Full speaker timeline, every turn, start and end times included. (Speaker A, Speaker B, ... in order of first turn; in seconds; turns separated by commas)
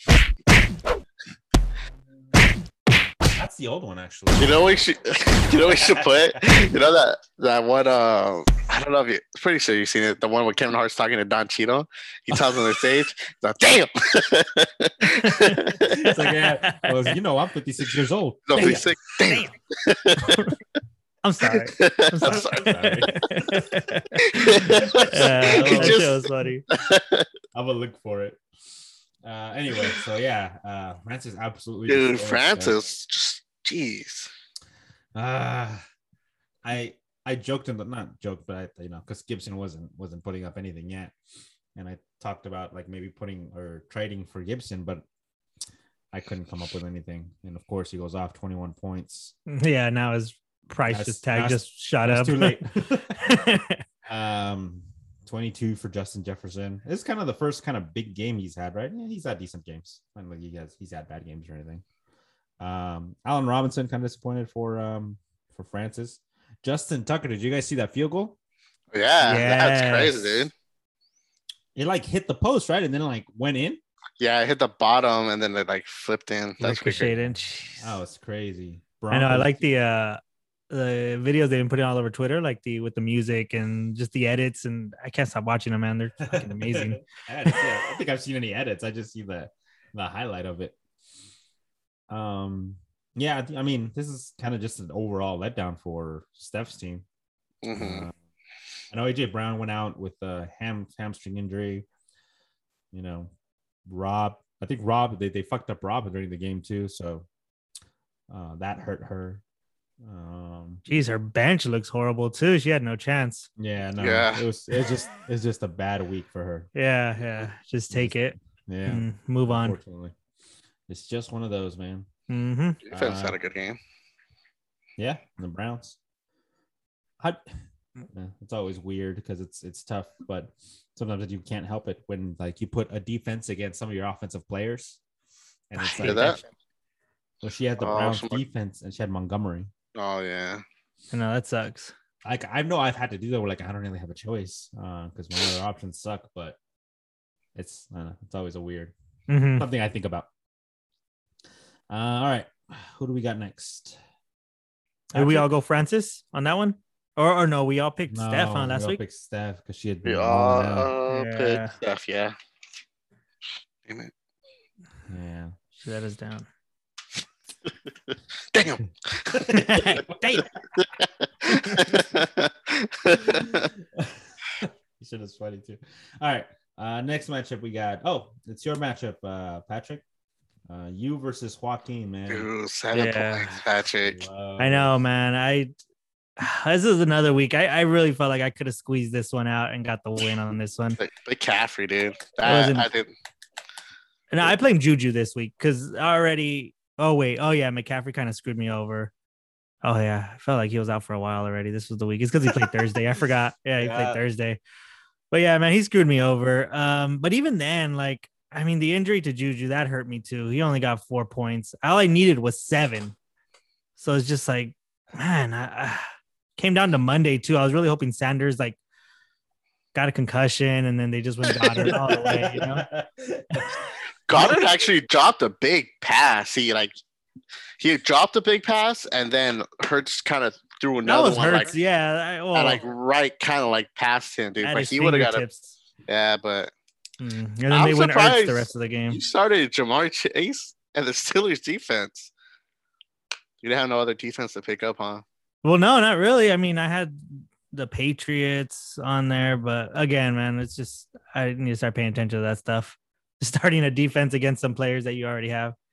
Speaker A: 3.3-4.7, Speaker B: 4.4-16.0, Speaker A: 5.6-6.4, Speaker A: 12.3-12.6, Speaker C: 15.1-17.0, Speaker A: 15.8-19.0, Speaker B: 18.5-20.4, Speaker C: 19.2-19.5, Speaker C: 20.2-20.5, Speaker C: 21.2-26.6, Speaker B: 21.5-23.0, Speaker A: 22.2-23.9, Speaker B: 24.3-27.3, Speaker A: 24.7-26.1, Speaker A: 27.5-28.4, Speaker A: 29.2-32.8, Speaker B: 31.9-34.3, Speaker A: 35.1-35.8, Speaker A: 36.6-41.1, Speaker A: 41.8-45.0, Speaker A: 46.1-49.3, Speaker C: 49.5-53.8, Speaker A: 50.9-53.2, Speaker A: 54.0-61.8, Speaker A: 62.6-68.4, Speaker B: 68.9-70.5, Speaker C: 69.2-70.3, Speaker A: 69.3-69.6, Speaker A: 71.8-73.8, Speaker B: 74.2-77.1, Speaker C: 76.6-78.0, Speaker A: 76.7-79.7, Speaker C: 79.1-80.2, Speaker C: 80.7-87.0, Speaker A: 86.2-90.8, Speaker A: 92.1-97.0, Speaker B: 97.6-98.1, Speaker A: 97.8-98.2, Speaker A: 98.9-101.9, Speaker A: 102.9-103.3, Speaker A: 103.9-107.3, Speaker A: 108.3-109.4, Speaker A: 110.0-110.8, Speaker C: 110.9-113.5, Speaker A: 113.6-116.7, Speaker B: 114.0-114.5, Speaker C: 116.8-119.8, Speaker A: 117.9-120.2, Speaker A: 120.9-122.1, Speaker C: 122.3-122.8, Speaker A: 122.9-123.4, Speaker B: 122.9-123.8, Speaker A: 125.0-126.0, Speaker A: 128.1-135.0, Speaker A: 135.7-136.4, Speaker C: 135.8-136.4, Speaker B: 136.0-136.4, Speaker A: 137.4-139.7, Speaker B: 137.8-138.4, Speaker B: 139.9-140.6, Speaker C: 141.1-141.9, Speaker A: 142.2-146.6, Speaker A: 147.6-148.9, Speaker C: 149.3-149.7, Speaker A: 149.6-150.3, Speaker A: 151.9-154.0, Speaker A: 155.1-155.5, Speaker C: 155.1-159.0, Speaker A: 158.1-160.9, Speaker B: 160.0-162.3, Speaker C: 161.1-161.8, Speaker A: 165.1-165.5, Speaker C: 165.8-166.5, Speaker B: 168.5-169.5, Speaker A: 169.3-170.5, Speaker C: 169.5-170.4, Speaker B: 170.8-173.7, Speaker A: 171.5-172.1, Speaker A: 173.2-180.0, Speaker A: 180.7-182.5, Speaker B: 182.3-184.2, Speaker C: 182.9-183.6, Speaker A: 184.0-185.0, Speaker C: 184.6-185.7, Speaker C: 186.4-191.0, Speaker B: 191.0-193.1, Speaker C: 192.4-192.9, Speaker C: 194.3-199.1, Speaker C: 199.8-204.6, Speaker A: 203.8-204.2, Speaker C: 205.3-213.2, Speaker C: 214.0-216.1, Speaker C: 216.6-218.8, Speaker C: 219.9-222.8, Speaker A: 221.8-223.8, Speaker B: 224.3-226.9, Speaker A: 224.3-224.8, Speaker B: 227.8-231.7, Speaker C: 231.1-232.8, Speaker B: 232.5-235.4, Speaker C: 234.6-235.7, Speaker B: 236.1-236.7, Speaker C: 237.2-239.2, Speaker B: 237.7-242.3, Speaker B: 243.6-245.2, Speaker C: 245.6-255.8